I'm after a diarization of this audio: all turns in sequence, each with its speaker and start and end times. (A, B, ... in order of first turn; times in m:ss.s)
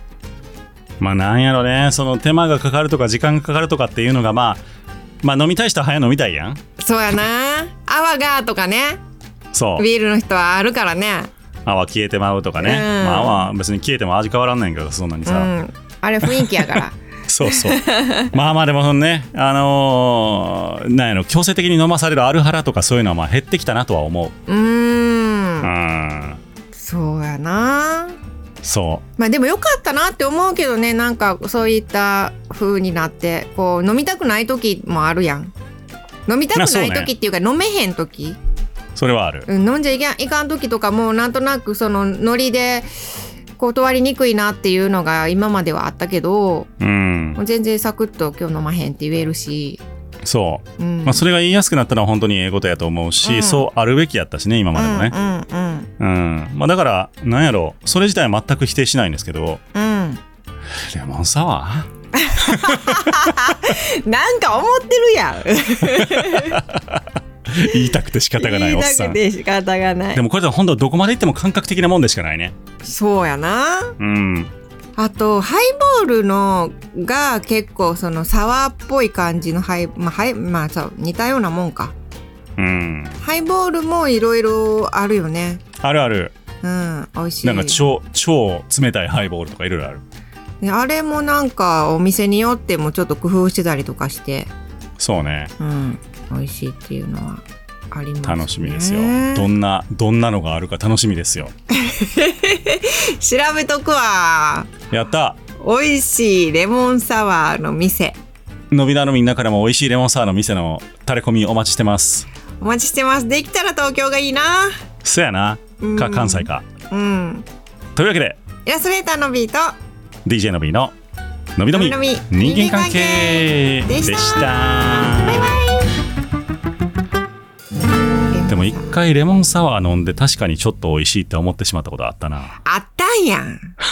0:01.0-0:04.6 A
0:05.2-0:06.6 A
0:06.8-0:09.0 B
0:09.5-0:09.9 A
0:09.8-0:11.3 B
0:11.6-0:15.5 A
0:12.6-0:13.5 B
0:15.2-0:18.3 B
0:16.2-0:24.3 A
0:24.5-0:25.7 B
0:25.6-0:26.4 A
0:26.8-0:28.2 B
0:28.6-0:29.0 A
0:29.2-0:35.5 B
0:36.2-0:38.4 B
0:36.6-0:37.1 A
0:39.0-0:39.5 A
0:39.5-0:42.9 B
0:43.6-0:46.7 B
0:46.8-0:47.4 A
0:47.4-0:49.8 B
0:50.2-0:55.1 A
0:50.8-0:51.2 B
0:53.2-0:53.7 B
0:54.8-0:55.9 B
0:56.0-0:59.6 A
0:59.7-1:00.2 B
1:00.9-1:01.9 A
1:02.1-1:06.6 B
1:02.4-1:03.3 A
1:05.9-1:09.2 A
1:08.4-1:10.2 B
1:10.1-1:12.5 A
1:12.8-1:14.0 B
1:14.0-1:14.5 A
1:15.0-1:21.9 B
1:22.6-1:23.2 A
1:23.2-1:25.6 B
1:25.8-1:26.3 A
1:26.6-1:27.8 B
1:27.4-1:30.0 A
1:30.6-1:34.5 B
1:35.0-1:35.5 A
1:35.6-1:39.5 B
1:38.2-1:41.5 A
1:41.7-1:44.7 B
1:44.9-1:45.4 A
1:45.6-1:48.2 B
1:48.7-1:52.3 A
1:52.6-1:54.7 B
1:55.0-1:56.6 A
1:55.8-1:57.4 B
1:58.0-1:58.4 A
1:58.6-1:59.7 B
2:00.2-2:00.9 A
2:01.6-2:05.5 A
2:01.7-2:05.9 B
2:08.5-2:12.6 A
2:12.6-2:13.7 B